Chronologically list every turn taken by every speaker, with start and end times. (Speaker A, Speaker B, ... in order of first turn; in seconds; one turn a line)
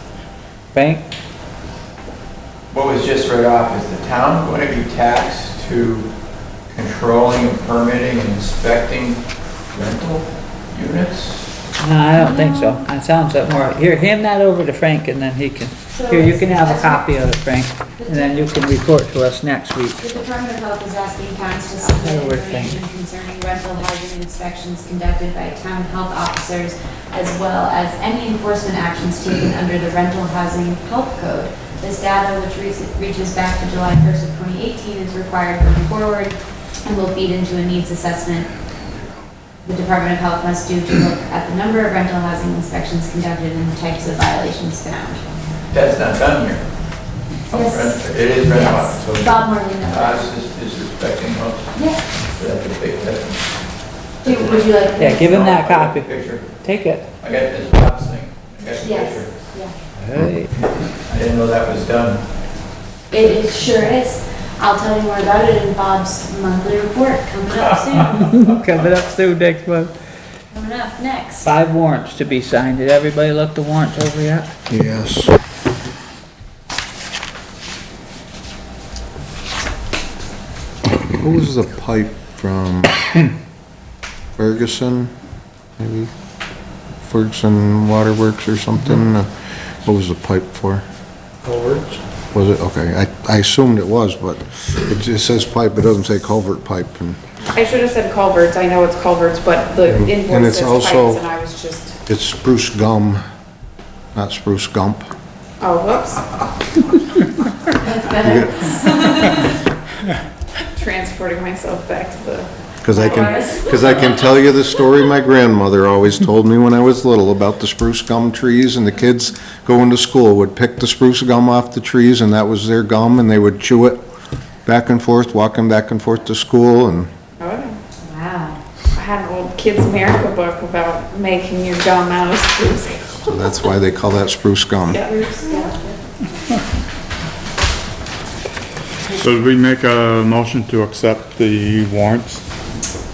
Speaker A: 0.7-1.1
Speaker B: 2.7-6.1
Speaker B: 6.7-11.5
Speaker A: 11.8-20.0
Speaker C: 12.2-12.8
Speaker C: 15.9-17.2
Speaker C: 18.0-18.7
Speaker C: 20.0-38.5
Speaker A: 21.8-22.8
Speaker C: 39.6-45.2
Speaker B: 45.7-46.6
Speaker C: 47.5-50.3
Speaker B: 47.5-53.4
Speaker C: 51.7-52.0
Speaker C: 54.2-55.4
Speaker B: 54.2-56.6
Speaker A: 55.0-57.1
Speaker B: 57.2-59.4
Speaker C: 58.7-59.7
Speaker A: 60.0-60.6
Speaker B: 60.8-62.2
Speaker C: 63.1-68.2
Speaker A: 68.1-69.9
Speaker C: 70.5-71.5
Speaker A: 71.4-74.5
Speaker D: 74.7-75.4
Speaker D: 81.0-83.0
Speaker D: 84.4-85.1
Speaker D: 85.8-86.1
Speaker D: 87.0-90.8
Speaker D: 92.3-97.2
Speaker E: 97.5-101.9
Speaker D: 99.9-101.3
Speaker D: 102.0-103.2
Speaker D: 104.1-105.1
Speaker E: 105.6-106.2
Speaker C: 107.8-109.5
Speaker D: 108.1-108.6
Speaker E: 110.8-113.1
Speaker D: 112.8-124.0
Speaker C: 112.9-114.2
Speaker D: 124.7-127.1
Speaker E: 127.4-127.7
Speaker C: 128.0-128.6
Speaker E: 128.9-133.1
Speaker D: 133.2-135.0
Speaker E: 134.9-135.6
Speaker C: 135.0-135.9
Speaker F: 139.1-142.4